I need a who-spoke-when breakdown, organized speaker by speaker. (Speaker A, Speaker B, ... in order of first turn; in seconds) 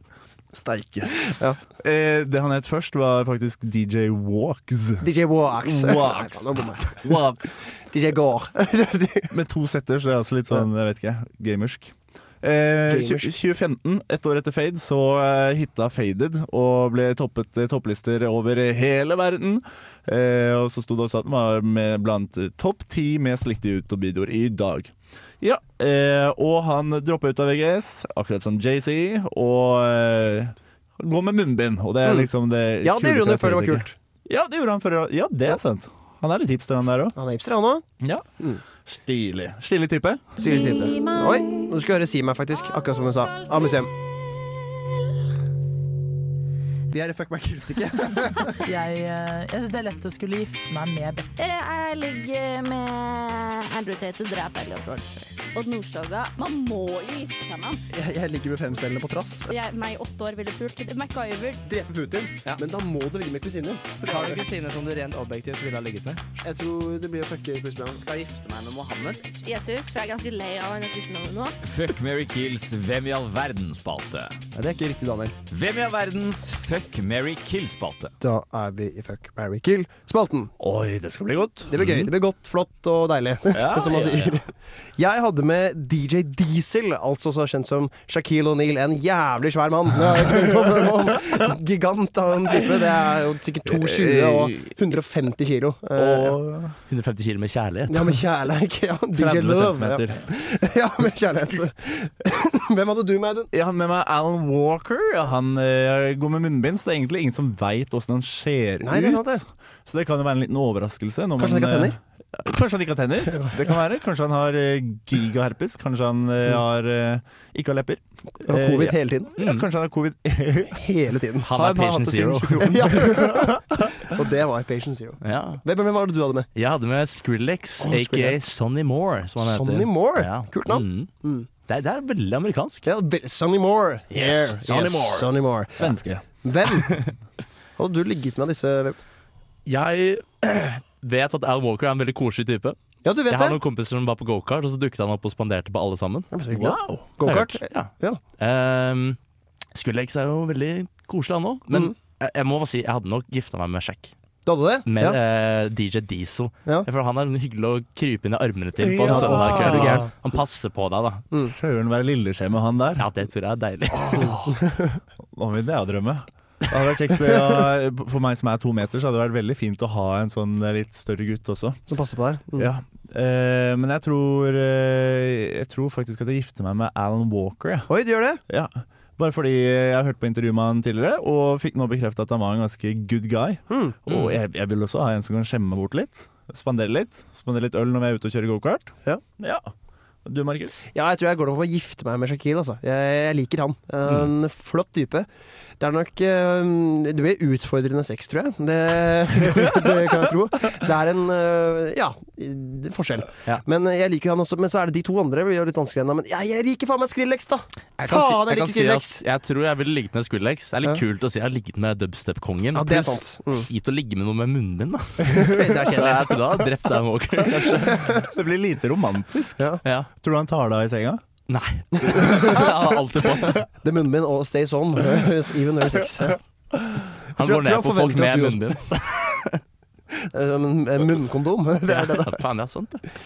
Speaker A: 0.5-7.6, 9.3-37.1, 38.8-40.4, 80.6-81.7, 83.5-84.0, 93.7-94.8, 96.0-96.7, 99.1-100.3, 103.5-120.8, 121.5-124.0, 134.9-135.2, 135.7-136.2, 146.5-147.1, 158.8-160.1, 161.4-163.1, 163.9-164.6, 165.3-171.8, 172.6-177.9, 178.5-189.7, 190.2-190.8, 218.0-219.6, 220.2-221.2
Speaker B: 1.3-1.6, 5.0-7.2, 7.8-9.3, 12.9-13.3, 32.0-32.3, 32.8-34.0, 37.1-37.8, 40.4-43.9, 46.9-48.6, 57.9-59.5, 61.6-64.4, 66.4-68.0, 74.5-75.3, 78.2-80.5, 81.7-96.4, 97.9-103.5, 108.8-109.4, 111.4-112.0, 118.4-119.3, 120.7-121.5, 122.6-126.5, 127.8-128.4, 129.4-131.5, 132.8-135.9, 136.4-137.0, 137.8-139.0, 143.0-143.6, 146.3-148.2, 154.4-155.2, 159.1-160.0, 164.5-165.0, 167.2-167.5, 171.9-172.7, 177.9-178.4, 183.7-184.0, 190.9-195.3, 195.8-209.2, 212.7-213.7, 215.3-216.6, 217.6-218.2, 222.3-222.6, 223.8-226.4, 227.4-228.7, 230.3-232.4
Speaker C: 48.5-51.3
Speaker D: 51.4-57.8, 59.5-61.6, 69.4-71.5
Speaker E: 64.0-66.2, 68.0-69.2, 71.6-74.3, 75.5-78.1
Speaker F: 81.8-82.1, 83.8-84.3, 96.9-98.2, 119.4-119.7, 121.4-123.0, 125.2-125.6, 126.5-131.1, 131.7-132.8, 134.1-135.2, 139.7-142.8, 143.3-146.3, 147.2-149.2, 149.7-154.1, 154.8-161.2, 163.0-164.4, 184.1-184.4, 208.0-218.0, 221.5-223.7, 227.4-229.6, 231.9-233.0